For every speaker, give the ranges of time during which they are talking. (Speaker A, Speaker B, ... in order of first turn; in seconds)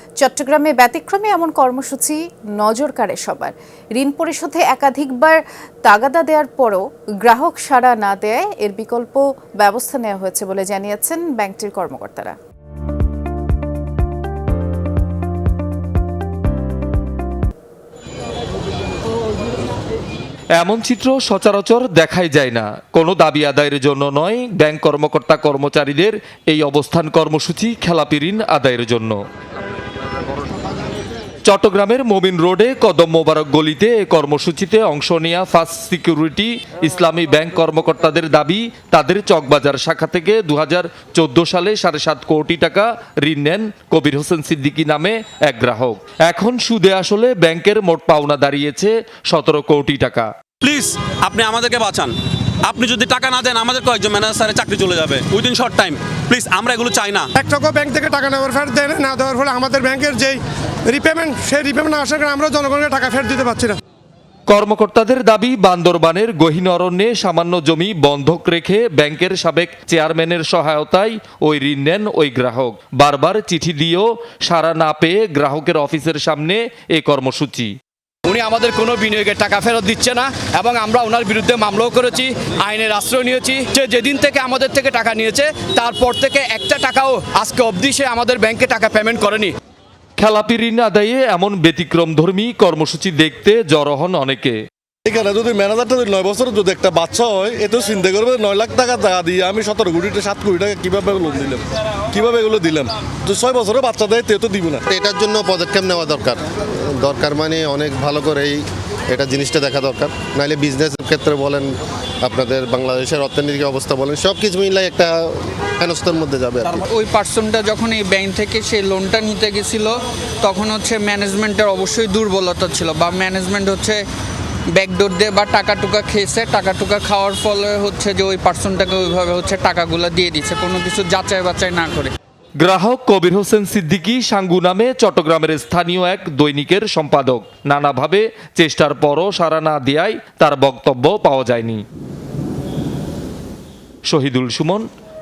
Speaker A: 0.2-12.3
Speaker B: 20.6-29.2, 31.4-50.3, 64.5-77.8, 90.2-94.6, 132.6-141.8, 144.1-144.9
Speaker C: 50.6-52.1, 52.7-57.2
Speaker D: 57.3-63.8
Speaker E: 78.2-89.5
Speaker F: 95.0-104.8
Speaker G: 104.9-111.7, 112.2-116.8
Speaker H: 116.7-124.0, 124.7-132.1